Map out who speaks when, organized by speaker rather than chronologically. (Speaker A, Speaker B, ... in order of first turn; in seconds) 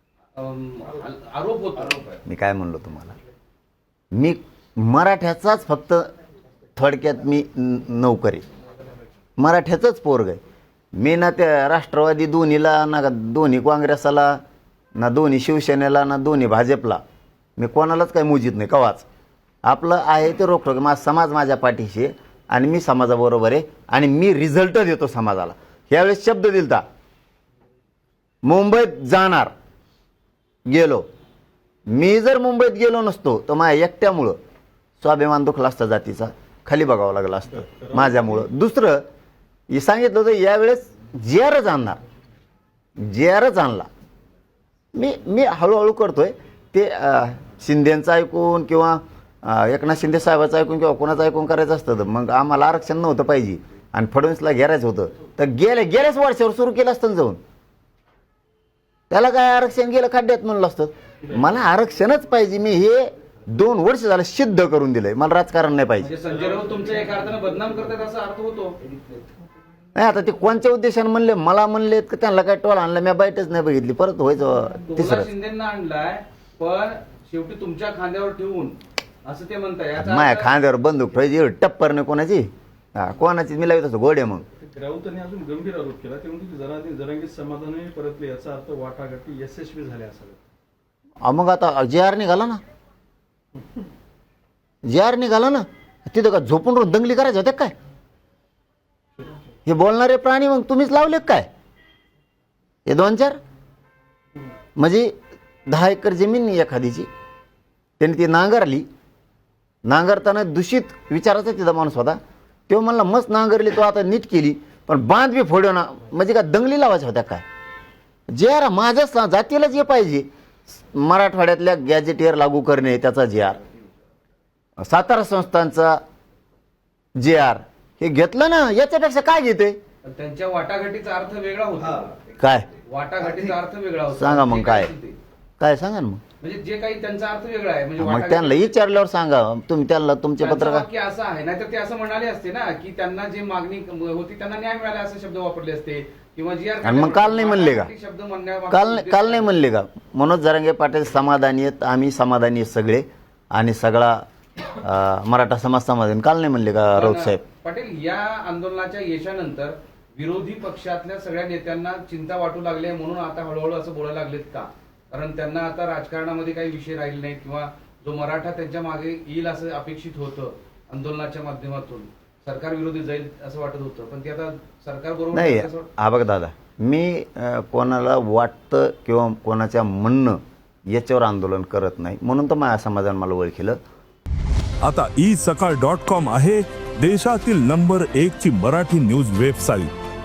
Speaker A: 0.4-2.2, 66.0-68.8, 74.9-80.5, 130.1-132.2, 132.9-135.2, 136.4-138.7, 140.4-149.5, 156.9-175.9
Speaker B: 2.3-3.1, 4.1-6.1, 6.8-8.4, 9.4-10.4, 10.9-14.4, 15.0-17.0, 17.6-19.1, 19.6-26.8, 28.4-29.5, 30.7-31.1, 31.9-34.4, 35.0-39.0, 39.7-42.0, 43.0-43.9, 44.9-57.4, 59.1-66.1, 70.0-75.3, 80.0-84.5, 91.2-92.6, 94.8-97.7, 99.7-101.5, 102.9-103.4, 104.8-105.1, 105.7-107.1, 108.0-108.9, 109.8-117.5, 118.3-123.6, 124.8-126.0, 127.2-129.8, 132.4-132.7, 134.1-134.9, 135.6-136.2, 138.0-140.9, 146.8-147.9, 148.7-157.4, 175.3-183.8
Speaker C: 37.6-38.5, 84.6-90.4
Speaker D: 184.8-189.9